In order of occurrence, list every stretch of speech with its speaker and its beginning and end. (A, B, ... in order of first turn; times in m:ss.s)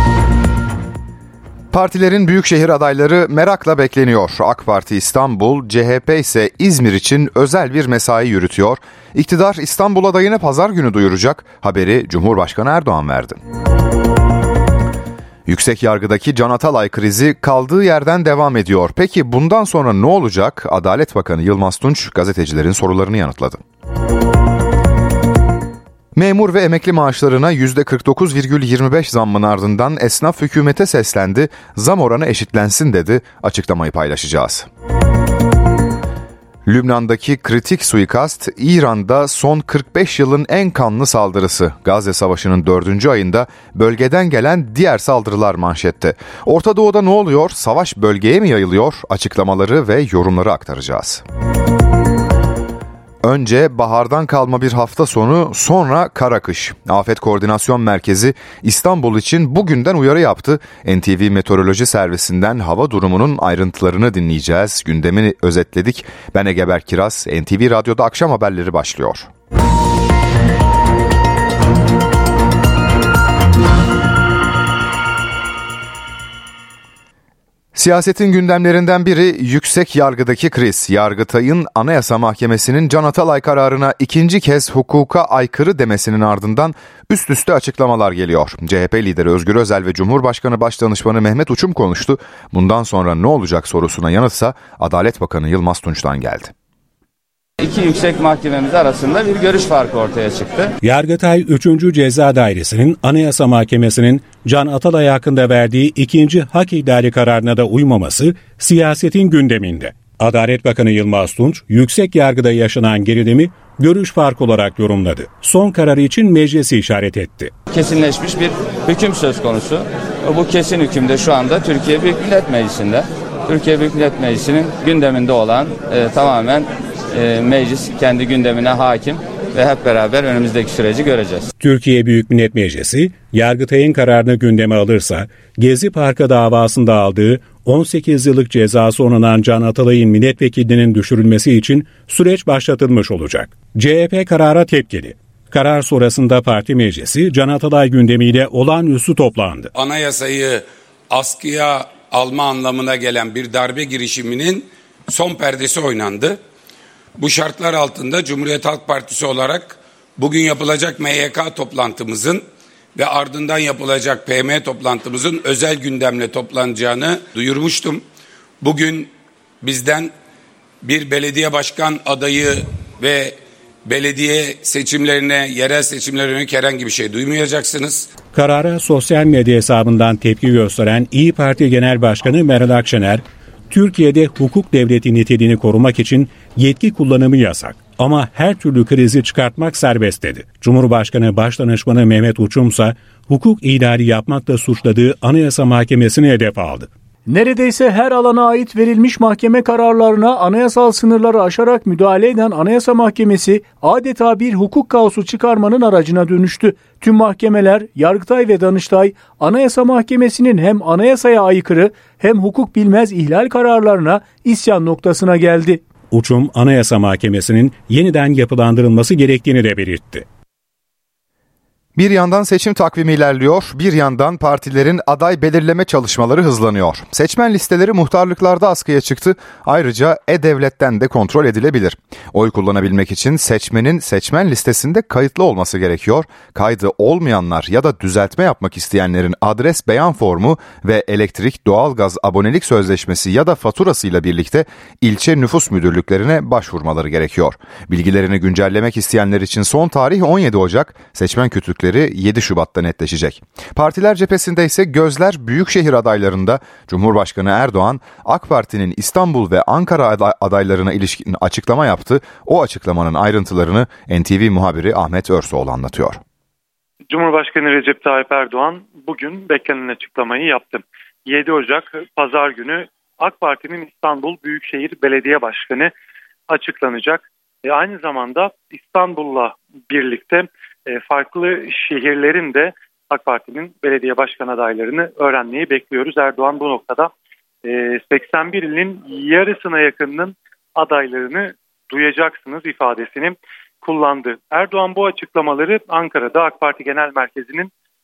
0:01.7-0:13.4 A
0:15.5-0:23.6 A
0:26.1-0:34.7 A
0:36.6-0:51.2 A
0:53.2-1:09.3 A
1:17.7-1:36.5 A
1:37.6-1:40.7 B
1:40.8-1:57.5 C
1:57.7-2:11.5 B
2:11.6-2:29.7 C
2:29.7-2:36.4 D
2:37.2-2:42.4 D
2:42.9-2:48.0 D
2:48.6-2:49.1 D
2:49.6-2:50.1 D
2:50.8-2:58.1 D
2:58.3-3:16.9 C
3:17.3-3:35.8 E
3:36.1-3:40.2 C
3:42.0-4:26.2 A
4:27.1-4:35.9 F
4:36.5-4:47.1 F
4:47.6-4:57.7 F